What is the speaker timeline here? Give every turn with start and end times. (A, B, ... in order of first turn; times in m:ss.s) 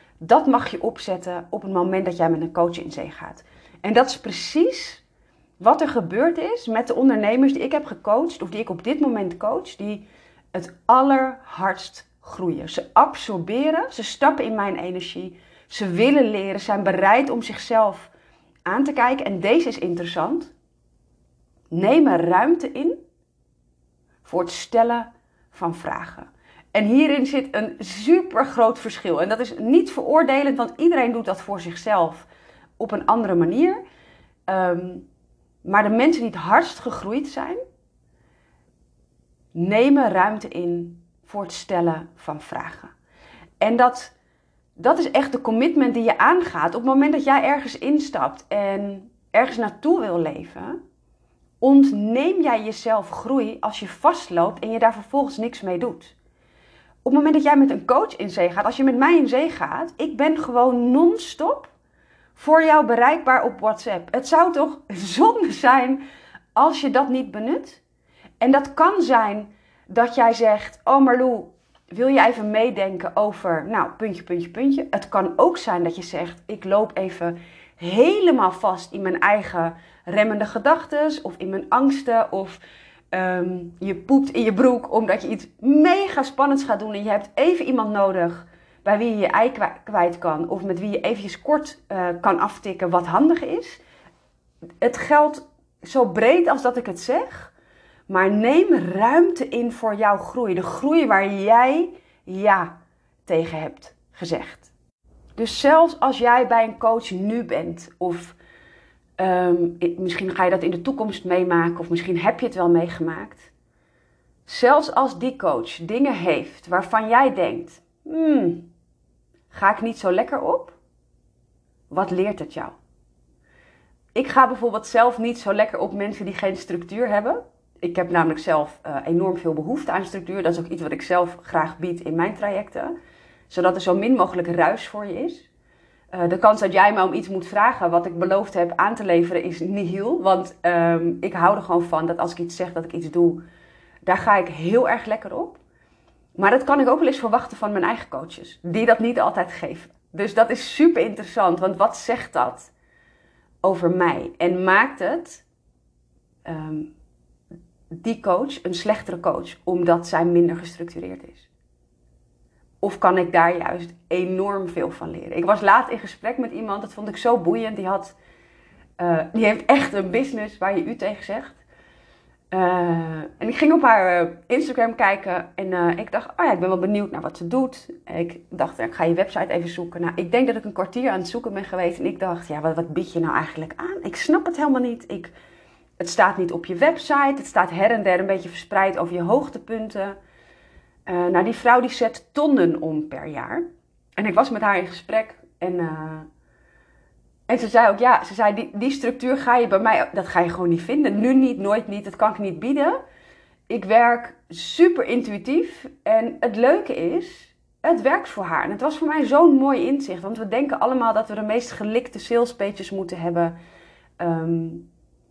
0:00.2-0:05.0 A
0:05.6-0:18.1 A
0:18.6-0:20.5 A
0:21.7-0:23.0 A
0:24.2-0:32.3 A
0:32.8-0:33.8 A
0:34.5-0:35.0 A
0:35.6-0:37.6 A
0:39.5-0:42.9 A
0:43.6-0:44.1 A
0:44.8-0:50.8 A
0:51.6-0:56.1 A
0:57.0-1:01.7 A
1:02.3-1:06.0 A
1:06.5-1:07.8 A
1:08.4-1:22.6 A
1:23.1-1:33.8 A
1:34.8-1:37.5 A
1:38.1-1:44.7 A
1:45.4-1:48.4 A
1:49.2-1:53.5 A
1:54.4-1:58.7 A
1:59.5-2:00.8 A
2:01.9-2:02.8 A
2:04.1-2:12.9 A
2:13.5-2:15.5 A
2:16.1-2:23.4 A
2:24.0-2:25.6 A
2:26.4-2:32.7 A
2:33.6-2:35.4 A
2:36.4-2:36.9 A
2:37.9-2:41.5 A
2:42.8-2:48.1 A
2:49.0-2:51.6 A
2:52.5-3:05.3 A
3:06.0-3:10.2 A
3:11.0-3:13.7 A
3:14.2-3:16.3 A
3:17.5-3:23.0 A
3:23.7-3:33.6 A
3:34.2-3:34.9 A